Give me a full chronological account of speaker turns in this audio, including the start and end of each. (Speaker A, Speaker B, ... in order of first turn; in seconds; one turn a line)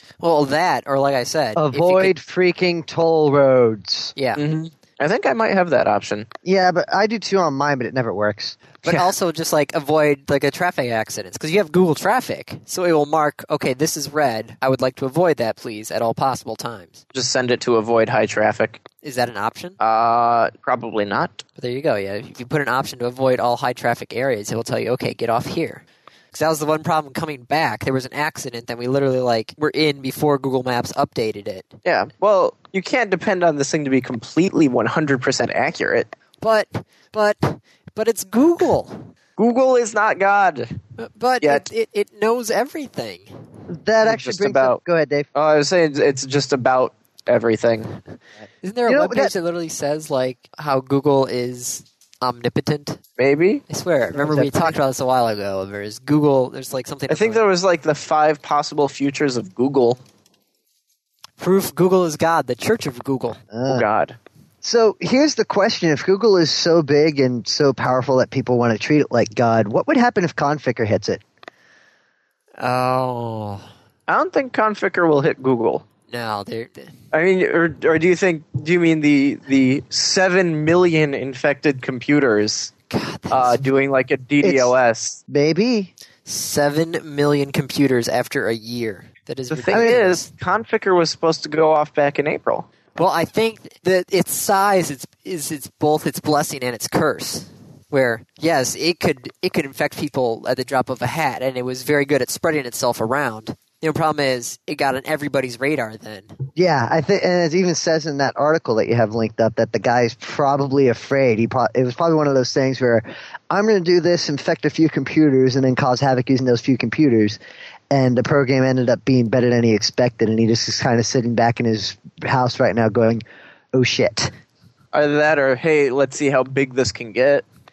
Speaker A: 0.2-2.1
Speaker B: 1.6-4.1
Speaker A: 4.2-4.4
Speaker C: 4.4-6.3
Speaker B: 6.5-8.6
Speaker A: 8.8-17.0
Speaker C: 17.1-18.8
Speaker A: 19.0-19.8
Speaker C: 19.8-21.4
Speaker A: 21.6-31.7
Speaker C: 31.9-36.1
Speaker A: 36.4-39.1
Speaker C: 39.4-40.7
Speaker A: 41.0-43.3
Speaker B: 43.7-45.3
Speaker C: 44.0-44.8
Speaker C: 45.4-48.0
Speaker A: 48.6-53.0
Speaker B: 48.9-49.3
Speaker C: 53.2-53.6
Speaker A: 53.7-57.4
Speaker B: 54.1-54.8
Speaker C: 57.1-60.0
Speaker A: 61.4-63.4
Speaker B: 63.5-63.9
Speaker C: 63.7-64.2
Speaker B: 64.6-71.2
Speaker A: 72.6-73.7
Speaker C: 74.1-75.8
Speaker A: 76.1-76.9
Speaker C: 77.1-82.7
Speaker A: 82.9-83.6
Speaker C: 83.3-85.2
Speaker B: 84.4-84.7
Speaker B: 85.3-85.9
Speaker A: 86.3-90.3
Speaker C: 89.5-92.7
Speaker B: 89.7-90.0
Speaker A: 93.0-106.3
Speaker B: 106.6-117.4
Speaker B: 117.9-123.2
Speaker B: 123.7-124.3
Speaker C: 124.9-127.5